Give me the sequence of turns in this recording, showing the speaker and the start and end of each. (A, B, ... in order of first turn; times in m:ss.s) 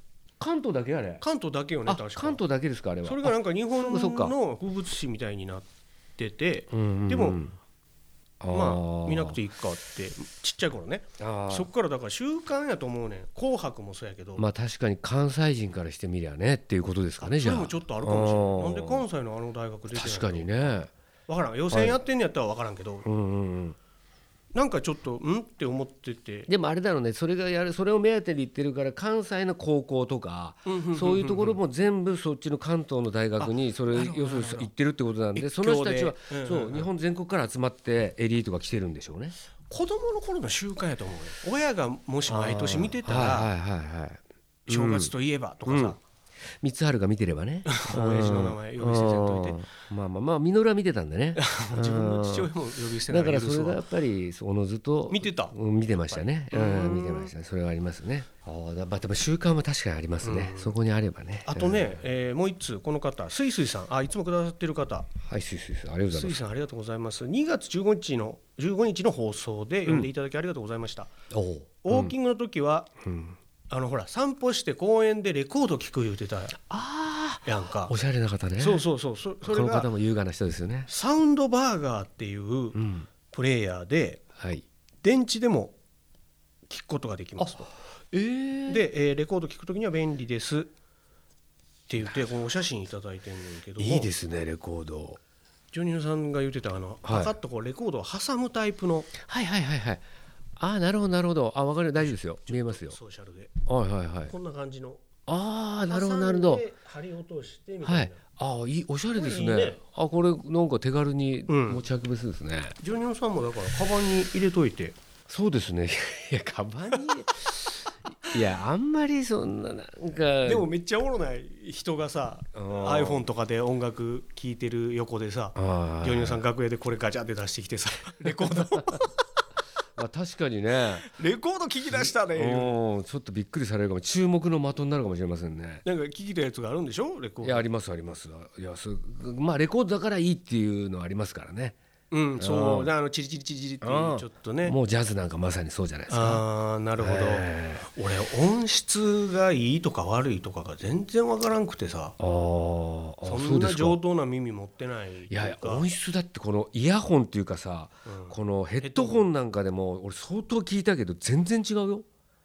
0:00.4-0:01.2 A
0:01.2-0:02.4 B
0:01.9-0:04.4 A
0:03.0-0:05.7 B
0:06.2-0:07.4 B
0:06.7-0:07.6 A
0:08.4-0:09.4 A
0:08.5-0:14.4 B
0:11.2-0:11.7 A
0:14.4-0:19.0 A
0:17.2-0:20.8 B
0:19.9-0:20.9 A
0:21.3-0:23.1 B
0:21.7-0:22.0 A
0:23.0-0:23.8 A
0:24.5-0:26.5 B
0:26.5-0:39.4 A
0:30.6-0:31.6 B
0:33.4-0:34.7 B
0:35.3-0:36.9 B
0:39.7-0:43.5 B
0:42.3-0:45.1 A
0:44.7-0:46.0 B
0:45.7-0:46.0 A
0:46.6-0:52.5 A
0:47.7-0:49.6 B
0:51.4-0:53.8 B
0:53.1-1:01.9 A
0:55.1-0:57.3 B
1:00.2-1:00.8 B
1:01.4-1:05.1 B
1:05.2-1:06.4 A
1:06.1-1:11.1 B
1:11.3-1:12.2 A
1:11.8-1:12.9 B
1:13.0-1:13.4 A
1:13.7-1:16.6 B
1:16.7-1:18.8 A
1:17.4-1:17.9 B
1:18.6-1:19.9 B
1:19.4-1:20.9 A
1:20.9-1:24.2 B
1:22.8-1:23.1 A
1:24.4-1:24.6 A
1:25.0-1:25.8 B
1:26.7-1:27.7 B
1:27.4-1:28.9 A
1:28.7-1:30.7 B
1:31.9-1:34.1 B
1:33.8-1:35.2 A
1:35.7-1:39.1 B
1:37.1-1:37.3 A
1:39.2-1:40.0 A
1:40.6-1:43.0 A
1:42.4-1:43.5 B
1:43.7-1:44.3 A
1:44.3-1:45.0 B
1:45.3-1:46.6 A
1:45.9-1:48.2 B
1:47.8-1:52.8 A
1:49.2-1:49.8 B
1:51.5-1:51.8 B
1:52.8-1:55.0 B
1:55.3-2:00.7 A
2:00.4-2:09.1 B
2:02.6-2:03.3 A
2:05.6-2:06.4 A
2:10.0-2:11.1 A
2:11.1-2:12.8 B
2:11.9-2:15.8 A
2:15.8-2:17.7 B
2:17.4-2:21.8 A
2:22.1-2:24.8 B
2:22.4-2:22.9 A
2:23.8-2:26.4 A
2:26.1-2:32.2 B
2:27.0-2:27.9 A
2:32.2-2:34.0 A
2:33.2-2:35.9 B
2:35.3-2:42.1 A
2:38.1-2:39.3 B